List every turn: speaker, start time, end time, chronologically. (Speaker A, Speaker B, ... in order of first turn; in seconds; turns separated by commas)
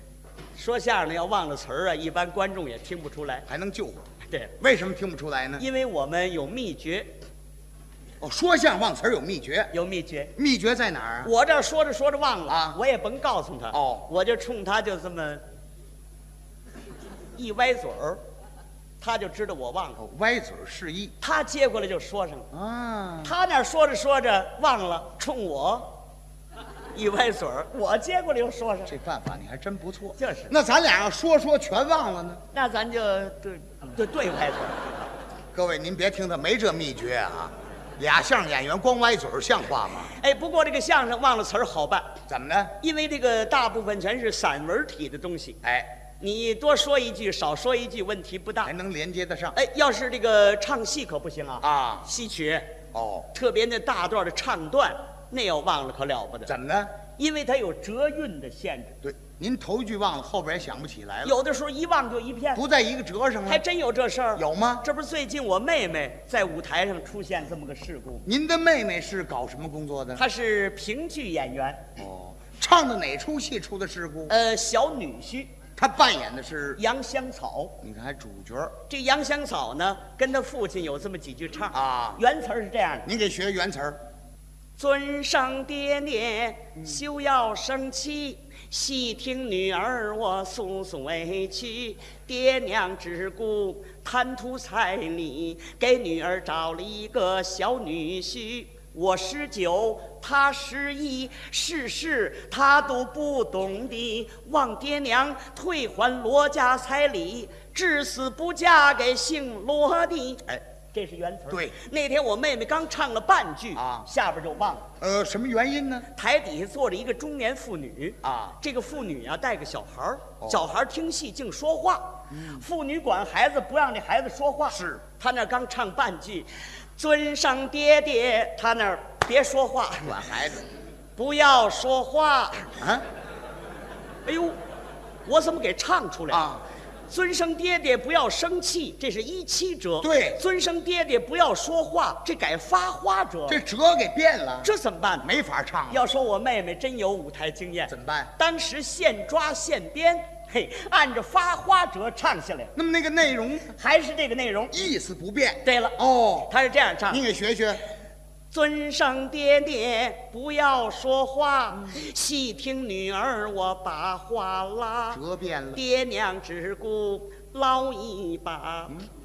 Speaker A: 0.5-3.5, Speaker B: 3.5-5.6, Speaker A: 5.6-7.1, Speaker B: 8.2-9.7, Speaker A: 9.7-10.3, Speaker B: 10.4-11.3, Speaker A: 11.2-15.4, Speaker B: 12.5-12.8, Speaker B: 13.7-14.1, Speaker A: 17.4-18.2, Speaker A: 19.0-20.0, Speaker B: 20.0-21.1, Speaker A: 21.2-22.5, Speaker B: 22.5-23.3, Speaker A: 23.2-25.9, Speaker A: 26.9-28.9, Speaker B: 28.9-32.4, Speaker A: 30.2-30.5, Speaker A: 32.5-35.1, Speaker B: 35.5-40.1, Speaker A: 40.1-42.2, Speaker B: 42.3-42.8, Speaker A: 42.8-45.6, Speaker B: 45.6-45.9, Speaker A: 46.2-48.7, Speaker B: 48.6-49.6, Speaker A: 49.5-52.8, Speaker B: 51.6-52.1, Speaker B: 52.9-53.3, Speaker A: 53.3-56.5, Speaker B: 56.5-56.9, Speaker A: 57.2-59.0, Speaker B: 59.0-61.4, Speaker A: 61.2-62.6, Speaker B: 62.5-63.6, Speaker A: 63.5-68.2, Speaker B: 64.4-64.8, Speaker B: 68.3-70.2, Speaker A: 70.2-71.9, Speaker B: 72.0-74.3, Speaker A: 74.3-75.5, Speaker B: 75.8-76.8, Speaker A: 76.8-77.8, Speaker B: 77.8-78.8, Speaker A: 78.9-83.1, Speaker B: 81.7-82.2, Speaker B: 83.0-84.0, Speaker A: 84.8-114.9, Speaker B: 111.5-111.8, Speaker B: 113.7-114.1, Speaker B: 115.0-116.1, Speaker A: 116.1-130.2, Speaker B: 118.2-118.6, Speaker B: 120.4-120.7, Speaker B: 122.3-122.6, Speaker B: 124.7-125.0, Speaker B: 130.0-130.6, Speaker A: 131.2-132.7, Speaker B: 132.8-133.0, Speaker A: 134.2-134.6, Speaker A: 135.2-136.5, Speaker B: 136.3-136.6, Speaker A: 137.1-143.6, Speaker B: 140.0-140.4, Speaker B: 143.5-146.0, Speaker A: 144.6-145.3, Speaker A: 145.9-152.7, Speaker B: 147.9-148.3, Speaker B: 152.8-153.8, Speaker A: 153.8-154.8, Speaker B: 154.7-156.5, Speaker A: 155.6-157.2, Speaker B: 157.1-157.8, Speaker A: 158.5-165.2, Speaker B: 165.1-165.8, Speaker A: 165.7-169.1